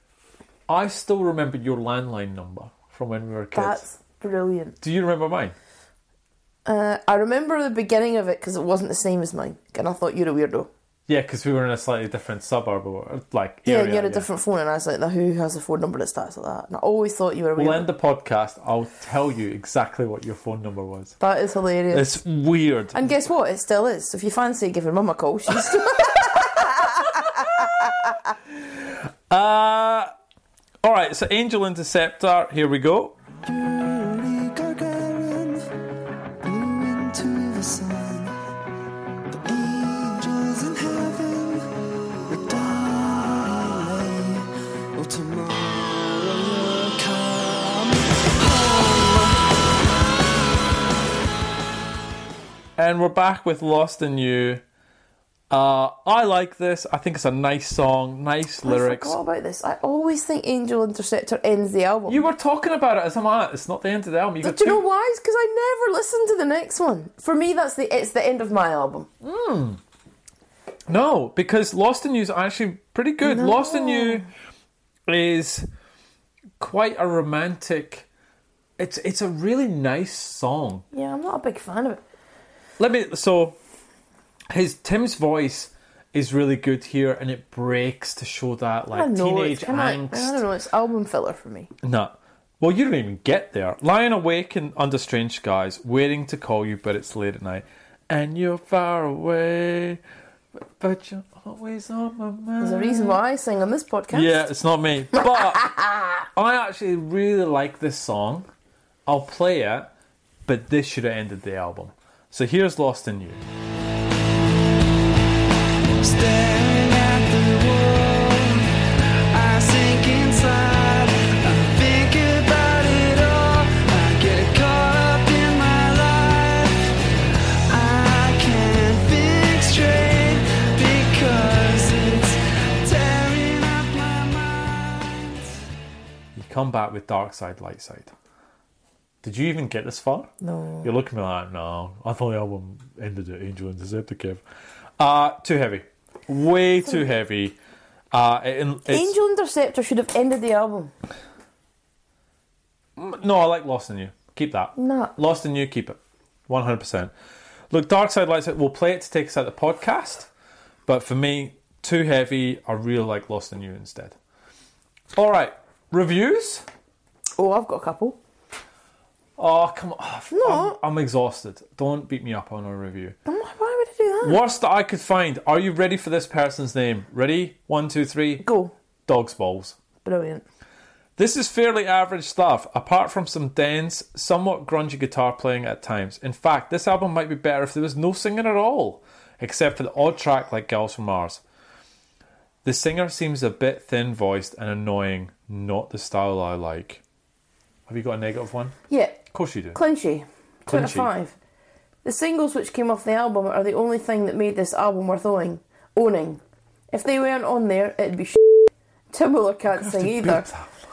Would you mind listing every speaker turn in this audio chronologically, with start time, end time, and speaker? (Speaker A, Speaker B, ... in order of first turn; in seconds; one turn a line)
Speaker A: 0.7-3.8
Speaker B: 3.5-4.8
Speaker A: 4.8-5.5
Speaker B: 6.7-10.7
Speaker A: 11.1-14.3
Speaker B: 13.7-17.9
Speaker A: 17.6-21.1
Speaker B: 21.2-22.2
Speaker A: 21.9-23.1
Speaker B: 22.9-28.1
Speaker A: 27.1-27.5
Speaker A: 28.5-30.1
Speaker A: 30.8-33.2
Speaker C: 33.4-35.7
Speaker C: 36.4-38.4
Speaker C: 39.3-49.4
Speaker A: 52.8-54.6
Speaker A: 55.5-59.2
Speaker B: 58.6-62.3
Speaker A: 62.1-64.8
Speaker B: 64.4-69.1
Speaker A: 69.2-69.8
Speaker A: 70.9-74.3
Speaker B: 73.2-74.2
Speaker A: 75.1-75.7
Speaker A: 76.6-78.0
Speaker A: 78.8-80.8
Speaker B: 80.9-82.0
Speaker A: 82.8-83.6
Speaker A: 84.5-90.4
Speaker B: 88.9-91.7
Speaker A: 91.8-100.0
Speaker A: 100.8-103.2
Speaker B: 102.6-104.4
Speaker A: 104.1-108.5
Speaker B: 105.5-106.0
Speaker A: 109.1-109.9
Speaker A: 110.5-113.4
Speaker C: 116.0-126.9
Speaker C: 127.7-135.5
Speaker A: 136.3-138.1
Speaker A: 139.2-140.3
Speaker B: 140.4-140.9
Speaker A: 140.8-144.4
Speaker A: 145.0-147.6
Speaker A: 148.1-149.1
Speaker B: 148.9-150.9
Speaker A: 153.0-157.1
Speaker B: 154.8-155.1
Speaker A: 157.7-160.3
Speaker A: 160.8-164.2
Speaker A: 165.1-166.6
Speaker B: 167.4-168.2
Speaker A: 169.4-173.2
Speaker B: 170.3-170.8
Speaker B: 173.3-174.4
Speaker A: 174.2-178.4
Speaker B: 178.4-178.7
Speaker A: 179.1-179.8
Speaker B: 180.0-180.4
Speaker A: 181.2-191.4
Speaker A: 192.6-197.0
Speaker A: 197.9-198.8
Speaker B: 198.9-199.2
Speaker A: 199.3-199.8
Speaker B: 199.7-201.3
Speaker A: 200.7-201.1
Speaker B: 202.0-210.5
Speaker A: 209.7-210.7